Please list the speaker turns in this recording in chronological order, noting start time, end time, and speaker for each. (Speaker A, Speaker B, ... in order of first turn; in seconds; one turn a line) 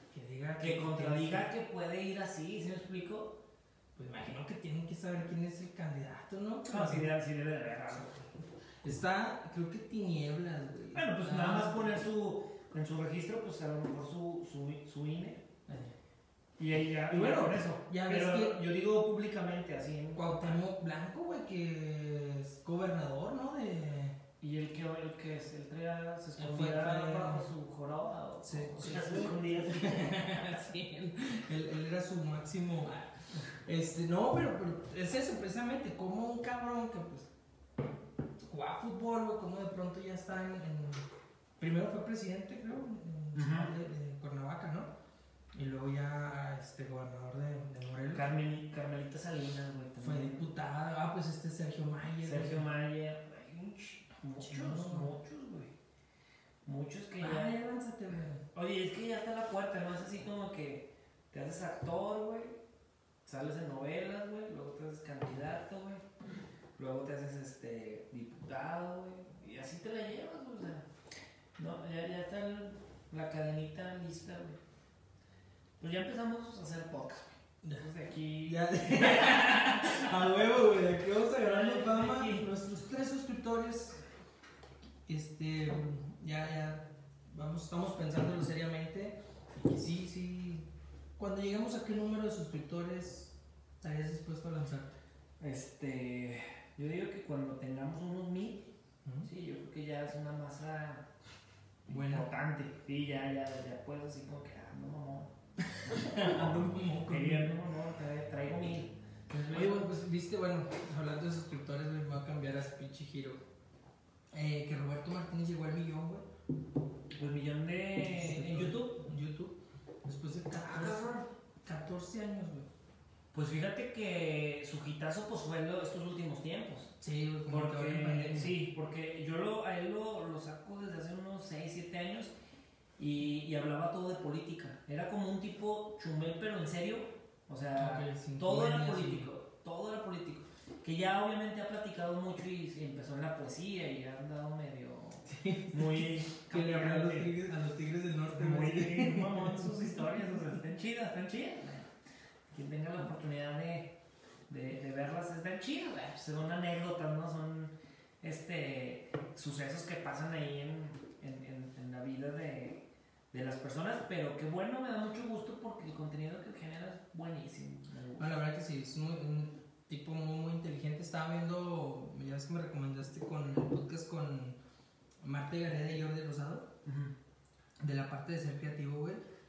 Speaker A: 0.1-1.5
Speaker B: 0.6-3.4
Speaker A: 4.0-7.1
Speaker B: 6.7-8.2
Speaker A: 7.9-8.2
Speaker A: 8.8-11.9
Speaker B: 10.9-15.4
Speaker A: 15.7-15.9
Speaker B: 16.6-20.6
Speaker A: 17.1-18.6
Speaker A: 20.1-24.2
Speaker B: 24.4-30.4
Speaker A: 26.4-27.5
Speaker A: 28.4-37.3
Speaker A: 38.4-41.1
Speaker A: 41.6-44.9
Speaker B: 43.3-43.7
Speaker A: 45.5-48.3
Speaker B: 48.1-50.5
Speaker A: 50.0-52.7
Speaker B: 52.2-55.7
Speaker A: 54.4-55.1
Speaker B: 56.6-57.6
Speaker A: 57.2-58.4
Speaker B: 58.5-62.6
Speaker B: 63.3-66.0
Speaker B: 66.8-70.9
Speaker B: 71.6-74.6
Speaker B: 75.8-80.2
Speaker A: 78.4-84.0
Speaker B: 81.4-82.5
Speaker A: 85.1-90.7
Speaker A: 91.2-95.0
Speaker B: 95.4-98.7
Speaker A: 99.0-99.3
Speaker B: 99.2-101.1
Speaker B: 101.9-105.3
Speaker A: 101.9-102.3
Speaker A: 105.7-107.5
Speaker B: 105.9-109.9
Speaker A: 109.5-113.4
Speaker A: 114.3-116.3
Speaker B: 117.2-119.0
Speaker A: 118.0-121.1
Speaker B: 120.6-121.3
Speaker A: 121.6-122.7
Speaker B: 123.3-126.9
Speaker A: 127.0-128.6
Speaker B: 127.5-132.3
Speaker B: 133.0-147.4
Speaker A: 137.8-139.3
Speaker A: 145.3-150.5
Speaker B: 148.3-151.9
Speaker B: 152.5-153.9
Speaker B: 154.5-168.4
Speaker A: 168.2-174.6
Speaker A: 175.2-176.7
Speaker B: 176.8-177.1
Speaker A: 177.8-179.2